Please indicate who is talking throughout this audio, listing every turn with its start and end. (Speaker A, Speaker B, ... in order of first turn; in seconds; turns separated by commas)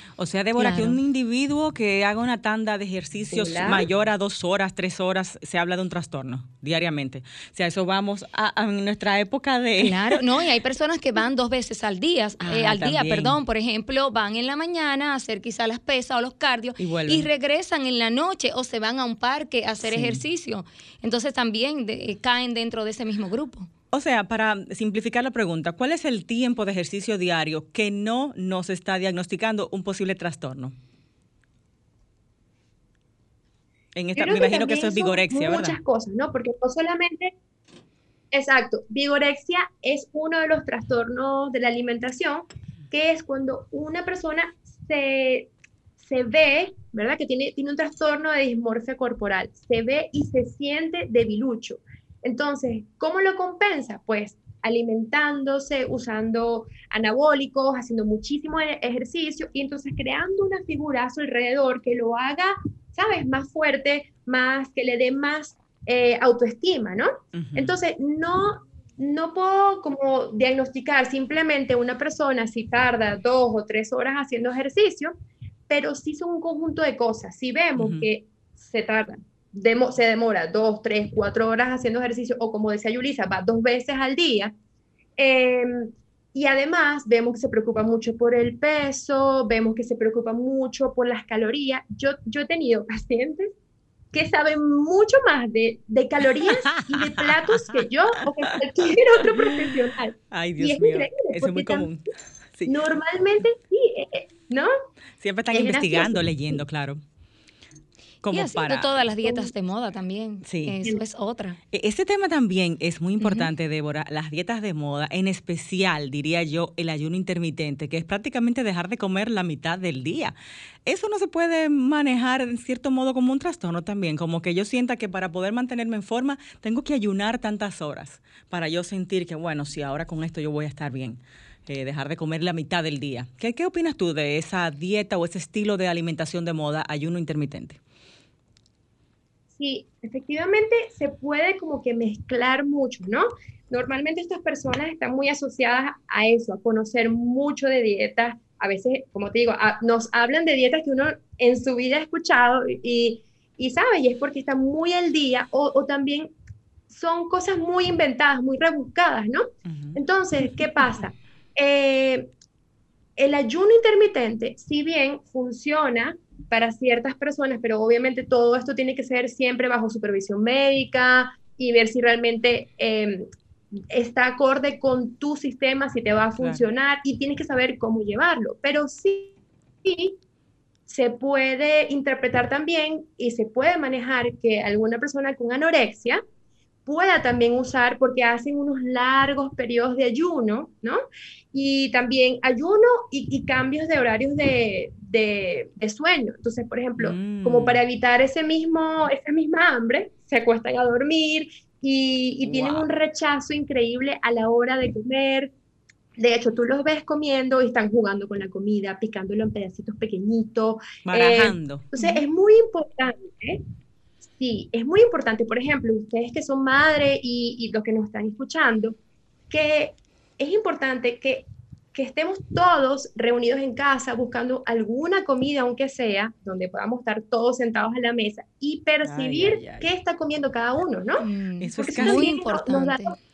Speaker A: 0.2-10.2, Speaker B: 0.6-1.0, Speaker C: 3.3-3.9, Speaker B: 9.8-23.7, Speaker A: 12.4-13.3, Speaker A: 16.8-17.3, Speaker A: 19.8-20.2, Speaker A: 23.9-30.8, Speaker A: 34.0-35.8, Speaker C: 34.1-37.3, Speaker C: 38.3-45.5, Speaker C: 46.0-75.1, Speaker A: 67.3-67.8, Speaker C: 75.7-84.5, Speaker A: 77.8-78.1, Speaker C: 85.2-93.5, Speaker C: 94.1-101.9, Speaker A: 96.7-97.8, Speaker A: 99.3-99.6, Speaker A: 100.3-102.7, Speaker C: 102.7-104.7, Speaker A: 105.2-107.0, Speaker C: 105.5-106.6, Speaker A: 108.2-108.9, Speaker B: 108.3-111.6, Speaker C: 109.2-109.5, Speaker A: 110.4-110.8, Speaker A: 111.7-120.3, Speaker B: 113.2-113.5, Speaker A: 120.9-137.8, Speaker C: 139.6-156.3, Speaker C: 156.9-162.3, Speaker A: 159.7-160.0, Speaker C: 163.2-173.3, Speaker C: 173.9-179.3, Speaker A: 176.4-176.6, Speaker C: 179.8-180.2, Speaker C: 180.9-186.2, Speaker C: 186.9-191.0, Speaker C: 191.5-205.5, Speaker A: 197.0-197.8, Speaker A: 202.4-202.9, Speaker C: 206.2-213.6, Speaker A: 211.1-211.9, Speaker C: 214.4-218.9, Speaker C: 219.5-233.1, Speaker A: 229.0-229.9, Speaker B: 231.2-233.2, Speaker A: 231.6-232.4